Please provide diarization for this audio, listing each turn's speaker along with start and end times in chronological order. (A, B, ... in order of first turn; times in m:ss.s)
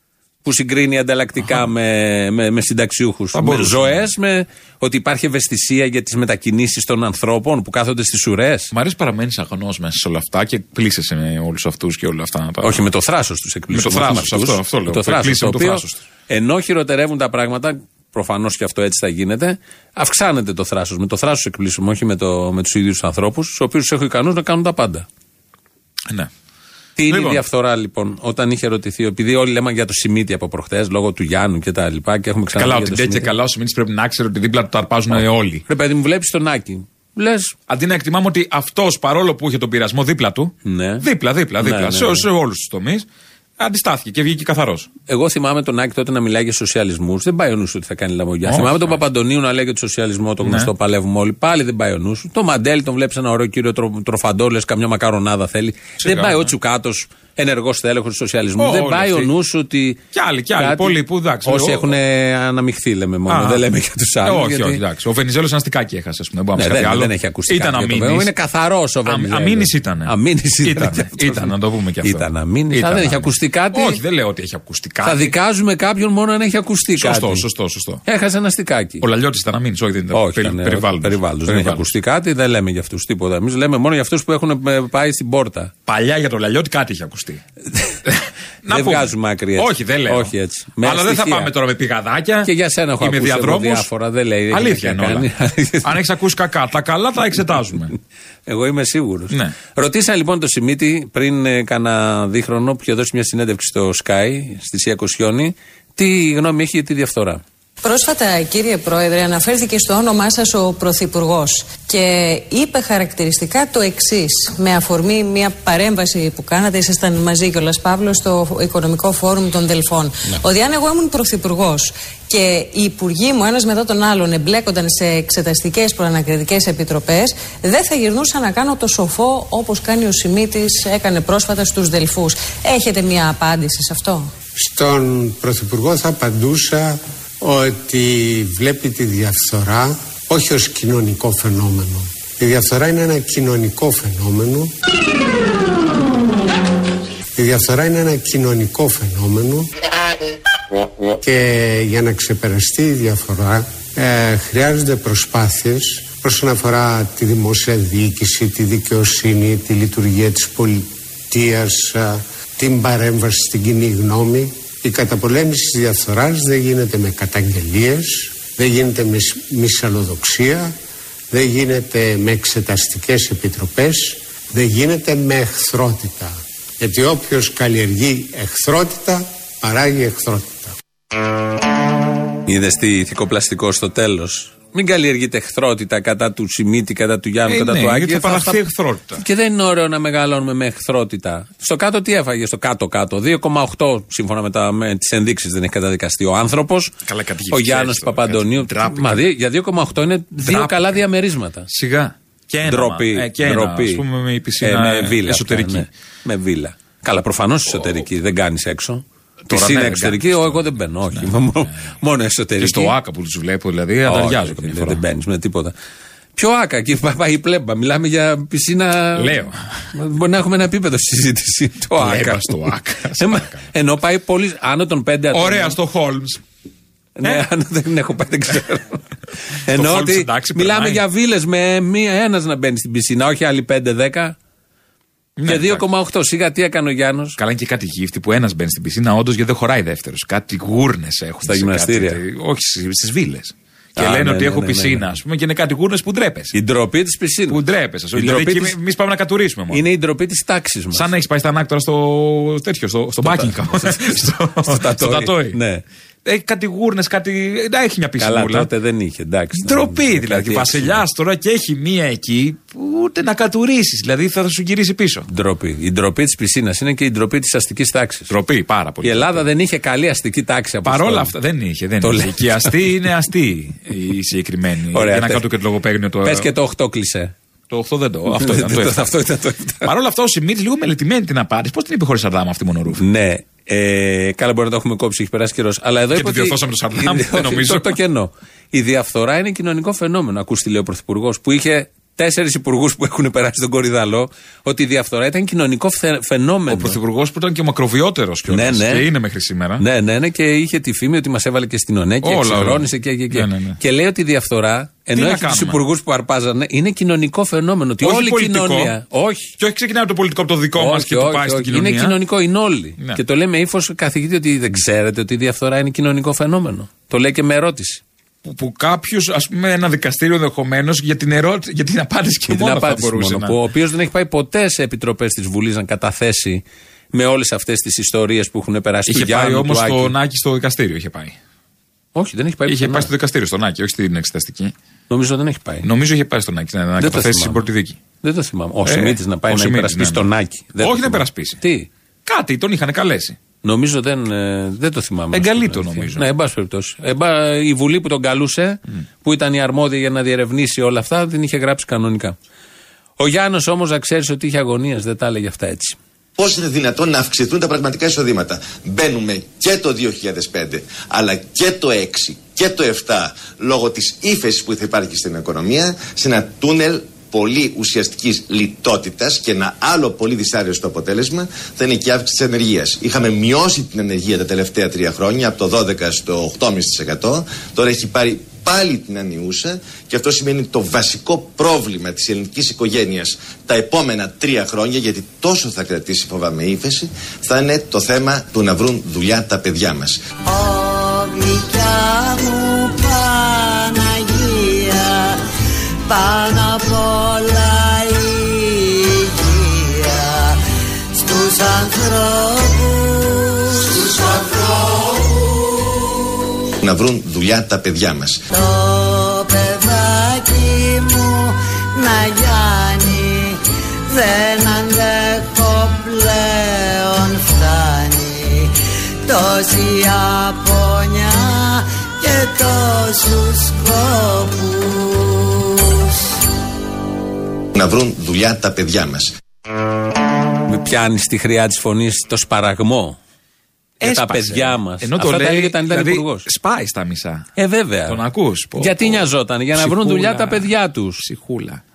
0:00.4-0:08.7 A
0:03.3-0:03.9 B
0:08.7-0:12.8 B
0:12.6-0:25.1 A
0:13.7-0:16.0 B
0:27.0-0:33.3 A
0:27.1-0:27.4 B
0:32.6-0:35.6 B
0:35.1-0:37.6 A
0:37.7-0:43.1 B
0:40.6-0:41.0 A
0:41.6-0:42.3 A
0:43.6-0:44.9 B
0:45.1-1:00.0 A
0:48.5-0:49.0 B
0:50.4-0:50.7 B
0:56.0-0:56.5 B
0:58.6-0:59.3 B
1:00.1-1:02.0 B
1:00.6-1:04.8 A
1:03.3-1:03.6 B
1:04.2-1:08.3 B
1:06.6-1:11.5 A
1:09.1-1:15.3 B
1:12.0-1:14.0 A
1:15.0-1:17.4 A
1:17.0-1:18.0 B
1:18.0-1:19.0 A
1:19.0-1:21.9 B
1:20.1-1:25.7 A
1:25.9-1:27.4 B
1:28.1-1:32.5 B
1:28.7-1:31.5 A
1:32.4-1:36.0 A
1:33.0-1:33.9 B
1:34.5-1:35.3 B
1:35.8-1:37.9 B
1:38.5-1:47.4 A
1:47.8-2:14.3 C
2:14.6-2:24.7 D
2:27.4-2:29.7 D
2:31.2-2:50.7 D
2:51.3-3:00.8 D
3:02.5-3:08.6 A
3:07.5-3:09.2 B
3:09.2-3:16.9 A
3:17.1-3:19.2 B
3:17.5-3:21.7 A
3:20.4-3:21.0 B
3:21.7-3:25.9 B
3:22.7-3:24.0 A
3:24.6-3:32.9 A
3:29.5-3:31.4 B
3:32.6-3:35.0 B
3:34.1-3:35.8 A
3:36.4-3:39.4 A
3:39.2-3:39.6 B
3:39.9-3:42.5 A
3:42.0-3:43.6 B
3:43.2-3:45.8 A
3:45.3-3:46.4 B
3:47.2-3:49.0 A
3:49.6-3:54.4 A
3:49.7-3:51.0 B
3:55.4-3:55.8 B
3:55.5-3:57.4 A
3:57.4-4:06.6 B
4:01.4-4:02.2 A
4:04.0-4:05.1 A
4:06.5-4:07.6 A
4:07.5-4:09.8 B
4:08.2-4:08.8 A
4:09.7-4:11.1 A
4:10.9-4:15.6 B
4:13.2-4:15.8 A
4:16.2-4:18.7 B
4:18.2-4:21.0 A
4:19.6-4:25.3 B
4:25.3-4:28.3 A
4:28.3-4:29.5 B
4:29.0-4:31.3 A
4:30.8-4:36.5 B
4:32.0-4:32.8 A
4:34.9-4:35.4 A
4:36.2-4:37.3 A
4:37.7-4:39.1 B
4:38.3-4:39.9 A
4:39.8-4:43.0 B
4:43.0-4:57.0 A
4:46.1-4:48.0 B
4:56.7-4:59.8 B
4:58.5-4:59.1 A
4:59.8-5:09.5 A
5:02.2-5:03.8 B
5:05.1-5:05.8 B
5:08.0-5:08.9 B
5:09.6-5:12.2 B
5:10.8-5:18.0 A
5:18.4-5:23.6 B
5:22.5-5:30.1 A
5:29.1-5:31.4 B
5:32.2-5:33.1 A
5:32.7-5:34.7 B
5:35.1-5:35.9 A
5:35.8-5:38.0 B
5:37.0-5:37.6 A
5:38.2-5:41.9 A
5:38.9-5:40.3 B
5:40.8-5:41.6 B
5:42.3-5:43.4 B
5:43.6-5:52.4 A
5:45.3-5:46.3 B
5:53.2-5:56.0 A
5:56.4-6:30.2 E
6:30.4-6:35.4 F
6:36.1-6:40.6 F
6:41.1-6:46.1 F
6:46.8-6:48.4 E
6:48.5-6:58.7 F
6:59.2-7:06.0 F
7:07.8-7:09.4 E
7:10.7-7:13.2 A
7:14.0-7:17.5 B
7:14.0-7:16.5 A
7:17.6-7:18.2 A
7:18.1-7:21.8 B
7:18.8-7:21.2 A